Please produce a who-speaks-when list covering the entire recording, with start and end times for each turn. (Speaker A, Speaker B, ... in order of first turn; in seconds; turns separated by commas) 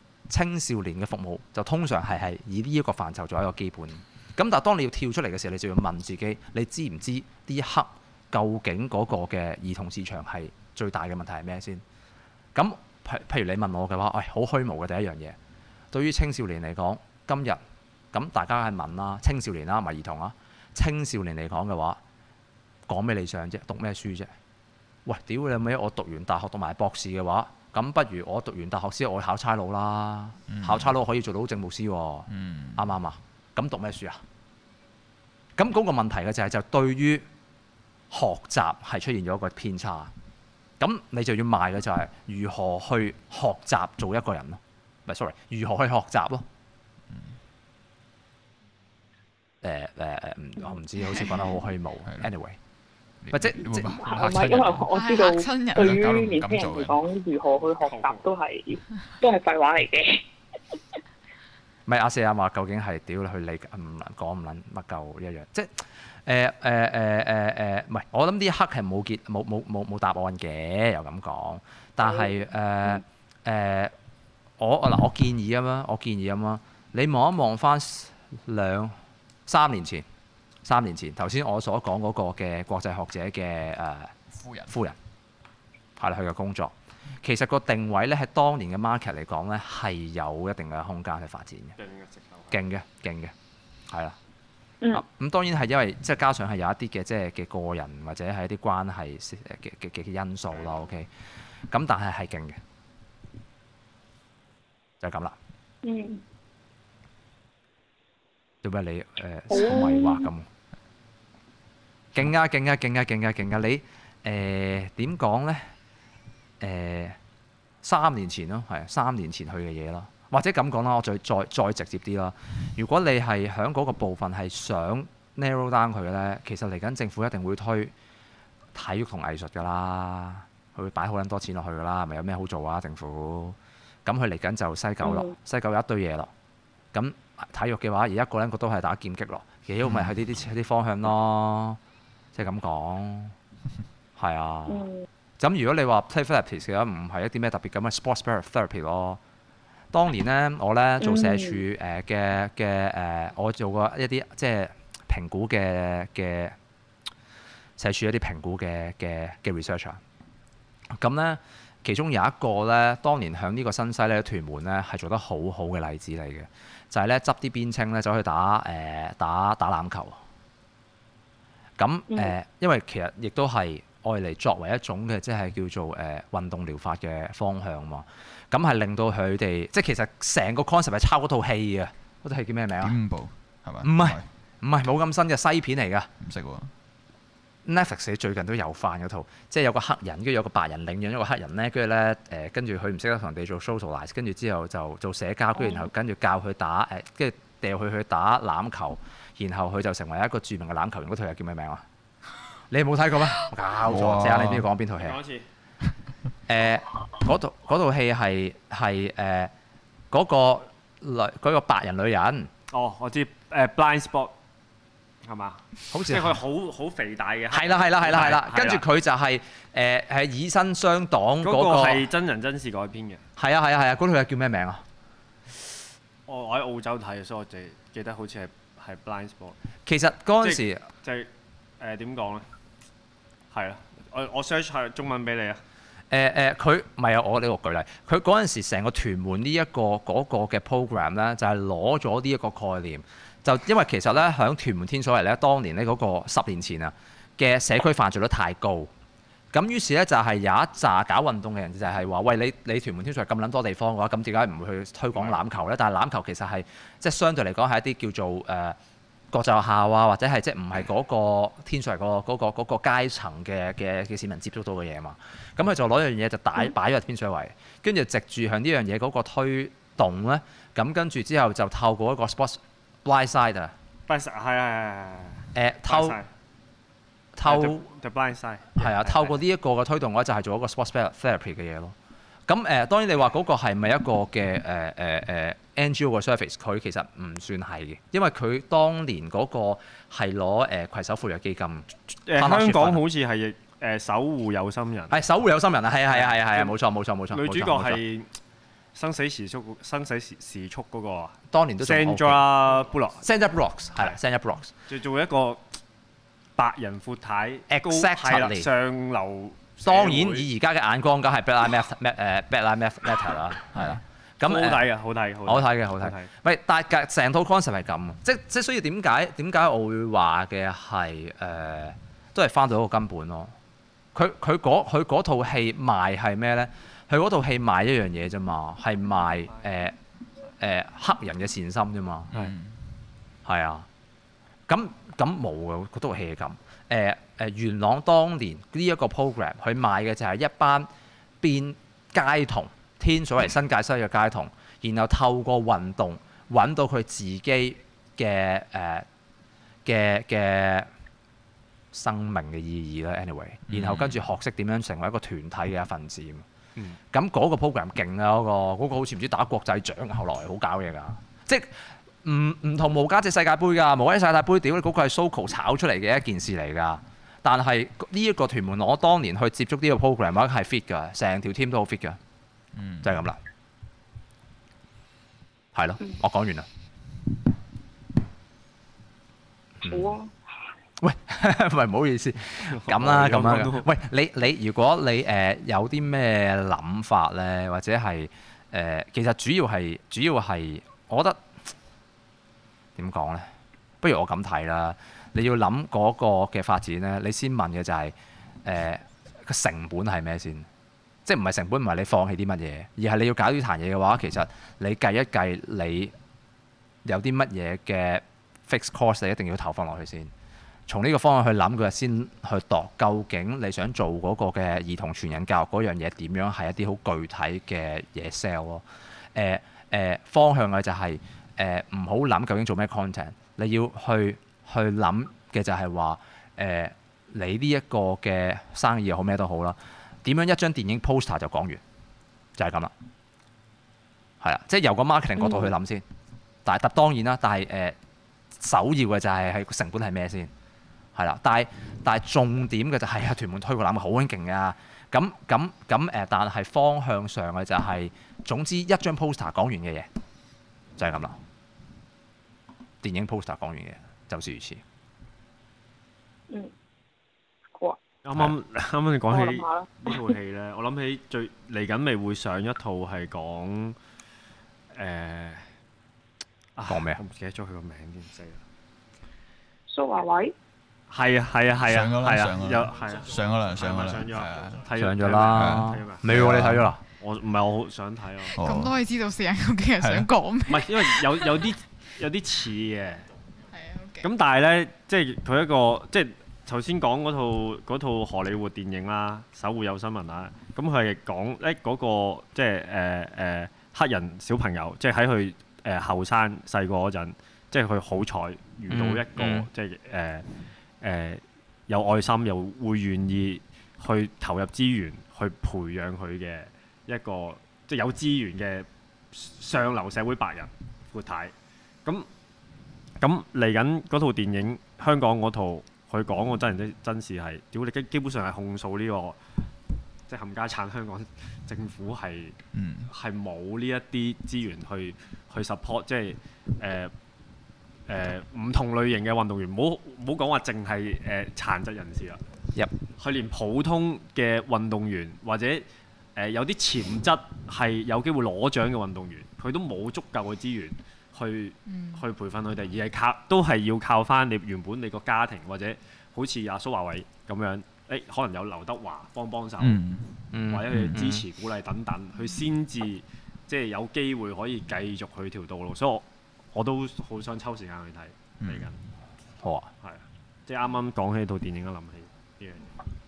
Speaker A: 0.3-11.8, Speaker A: 12.6-15.4, Speaker A: 15.9-17.6, Speaker A: 18.1-22.0, Speaker A: 22.9-24.3, Speaker A: 25.1-34.2, Speaker B: 30.5-30.9, Speaker B: 32.3-32.9, Speaker A: 35.6-37.3, Speaker A: 38.1-40.1, Speaker A: 40.8-46.5, Speaker A: 49.6-52.6, Speaker B: 53.2-54.9, Speaker A: 53.3-54.0, Speaker C: 53.9-60.2, Speaker D: 54.9-56.0, Speaker B: 55.7-57.0, Speaker E: 57.8-58.3, Speaker A: 61.9-73.9, Speaker A: 74.6-79.0, Speaker A: 79.5-80.0, Speaker A: 80.7-84.2, Speaker B: 84.3-84.7, Speaker A: 84.7-85.0, Speaker A: 86.0-91.8, Speaker E: 91.8-92.6, Speaker A: 92.5-93.3, Speaker A: 93.9-94.2, Speaker A: 94.9-101.1, Speaker A: 101.7-102.6, Speaker A: 105.0-105.3, Speaker C: 105.8-106.2, Speaker A: 108.6-110.5, Speaker C: 109.5-110.3, Speaker A: 112.2-115.6, Speaker A: 116.6-117.2, Speaker A: 117.8-127.9, Speaker A: 128.8-136.3, Speaker C: 135.0-135.3, Speaker A: 136.9-141.8, Speaker B: 139.8-140.1, Speaker A: 142.3-143.3, Speaker A: 144.2-144.8, Speaker C: 144.7-145.0, Speaker A: 145.4-149.2, Speaker A: 149.9-156.6, Speaker C: 151.0-151.6, Speaker A: 157.8-160.0, Speaker A: 161.0-170.2, Speaker A: 171.8-183.0, Speaker B: 182.8-184.3, Speaker A: 183.8-186.1, Speaker B: 186.2-186.7, Speaker A: 187.7-201.8, Speaker A: 202.7-205.2, Speaker B: 203.9-204.7, Speaker E: 205.0-205.5, Speaker A: 206.5-209.5, Speaker A: 210.1-212.5, Speaker E: 212.7-214.3, Speaker E: 215.2-218.8, Speaker A: 215.9-216.4, Speaker A: 217.5-222.1, Speaker E: 221.4-223.2, Speaker A: 223.4-224.8, Speaker E: 226.3-229.6, Speaker A: 229.9-230.9, Speaker E: 230.4-232.5, Speaker E: 233.5-235.6, Speaker A: 236.1-248.9, Speaker A: 249.5-258.8, Speaker E: 255.2-255.4, Speaker A: 259.3-273.7, Speaker E: 274.1-276.3, Speaker A: 275.5-276.2, Speaker A: 277.4-277.9, Speaker E: 277.4-279.4, Speaker A: 278.8-281.9, Speaker A: 282.5-293.0, Speaker E: 292.3-295.2, Speaker A: 295.1-298.0, Speaker E: 296.1-296.8, Speaker E: 297.3-298.3, Speaker E: 298.9-303.2, Speaker A: 301.5-302.5, Speaker A: 303.2-304.7, Speaker E: 304.9-305.6, Speaker E: 306.6-310.5, Speaker A: 307.7-308.7, Speaker A: 309.8-314.9, Speaker B: 313.8-314.0, Speaker E: 314.4-316.3, Speaker A: 315.5-323.5, Speaker A: 324.1-330.0, Speaker A: 330.6-332.3, Speaker B: 332.3-332.8, Speaker A: 333.5-333.9, Speaker A: 334.7-340.9, Speaker A: 341.4-349.1, Speaker A: 349.9-350.9, Speaker A: 351.9-356.4, Speaker B: 353.7-354.2, Speaker A: 357.1-372.2, Speaker B: 372.8-373.2, Speaker A: 373.0-373.4, Speaker A: 375.7-376.7, Speaker A: 379.8-380.1, Speaker C: 379.8-380.3, Speaker A: 381.0-391.4, Speaker E: 382.6-383.9, Speaker A: 393.0-393.5, Speaker A: 394.0-398.1, Speaker A: 398.6-400.7, Speaker A: 401.3-406.1, Speaker A: 407.1-410.3, Speaker A: 410.9-418.8, Speaker A: 419.4-431.8, Speaker A: 432.6-432.9, Speaker A: 434.4-436.0, Speaker C: 435.4-435.7, Speaker A: 436.6-438.0, Speaker A: 438.6-440.5, Speaker A: 441.1-450.1, Speaker A: 451.0-451.4, Speaker A: 453.0-454.8, Speaker C: 457.8-458.0, Speaker E: 458.2-464.0, Speaker C: 459.3-460.2, Speaker E: 464.9-465.7, Speaker E: 466.8-468.6, Speaker A: 466.9-467.2, Speaker C: 469.9-470.5, Speaker E: 471.1-476.2, Speaker B: 471.8-474.9, Speaker A: 475.0-477.0, Speaker B: 475.5-476.9, Speaker E: 477.2-478.6, Speaker B: 478.6-478.9, Speaker D: 478.6-481.7, Speaker B: 480.0-480.3, Speaker E: 480.7-483.3, Speaker D: 483.7-484.3, Speaker E: 484.2-500.5, Speaker A: 498.9-499.7, Speaker E: 501.0-511.5, Speaker E: 513.2-519.4, Speaker E: 520.3-527.1, Speaker B: 522.7-523.1, Speaker E: 528.1-532.4, Speaker E: 533.2-550.0, Speaker D: 541.9-542.2, Speaker B: 549.8-550.3, Speaker A: 550.5-551.5, Speaker E: 550.7-559.0, Speaker B: 550.9-551.2, Speaker B: 558.6-558.9, Speaker A: 559.6-559.9, Speaker E: 560.0-562.9